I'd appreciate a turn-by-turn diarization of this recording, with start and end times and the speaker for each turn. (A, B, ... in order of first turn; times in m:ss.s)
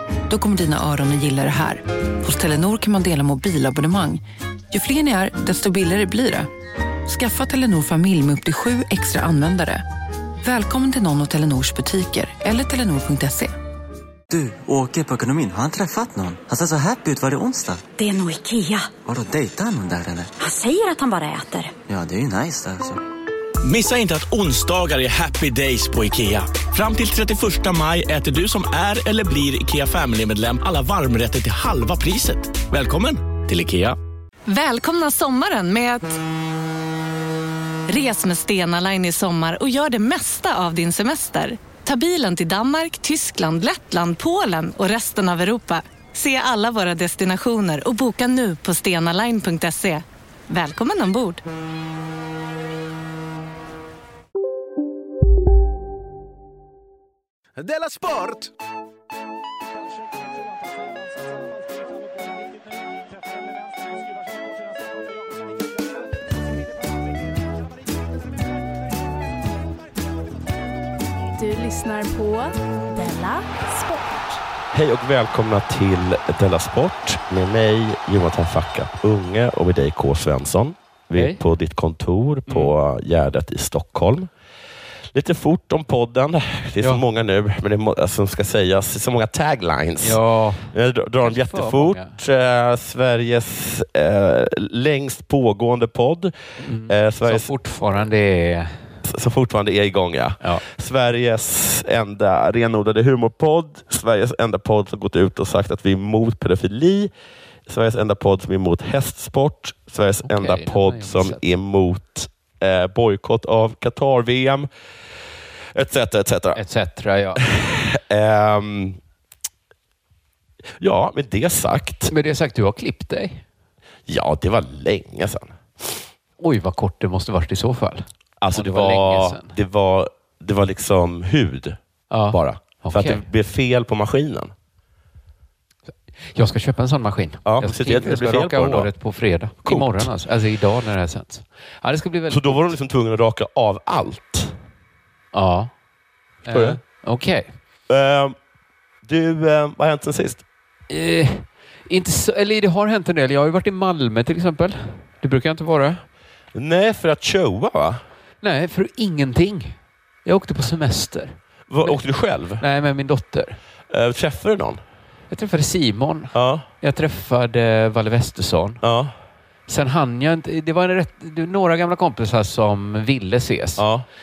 0:00.3-0:06.5 A
0:07.1-0:09.8 A
0:10.4-0:13.5 A
0:14.3-0:17.8 B
0:18.0-0:19.0 C
0:19.0-0:20.3 B
0:20.4-0:21.7 C
0:21.9-0:23.0 B
0:23.6-0:34.0 D
0:34.5-0:36.2 E
0:37.9-0:51.4 E
1:11.4-1:14.4 F
1:14.7-1:24.3 G
1:21.2-1:21.4 H
1:22.5-1:22.7 H
1:25.1-1:30.2 G
1:30.0-1:32.2 H
1:30.7-1:36.3 G
1:36.6-1:38.8 H
1:36.9-1:37.5 G
1:39.0-1:47.1 G
1:47.7-1:54.7 G
1:50.2-1:51.4 H
1:55.8-1:56.6 G
1:56.6-1:57.4 H
1:57.4-1:59.0 G
2:00.8-2:02.1 G
2:02.1-2:03.4 H
2:04.1-2:05.9 G
2:06.4-2:09.6 H
2:08.4-2:11.8 G
2:12.1-2:13.3 H
2:12.3-2:14.5 G
2:16.3-2:22.8 H
2:17.4-2:18.9 G
2:19.6-2:20.1 G
2:22.3-2:24.6 G
2:25.3-2:25.7 H
2:26.4-2:27.5 H
2:26.5-2:26.8 G
2:27.9-2:28.4 G
2:29.0-2:30.4 G
2:30.9-2:36.0 H
2:36.5-2:38.0 G
2:38.4-2:42.0 H
2:41.7-2:42.6 G
2:42.6-2:43.6 H
2:43.9-2:44.8 G
2:45.3-2:48.8 H
2:46.3-2:46.7 G
2:48.8-2:49.1 G
2:49.7-2:53.8 H
2:53.8-2:54.1 G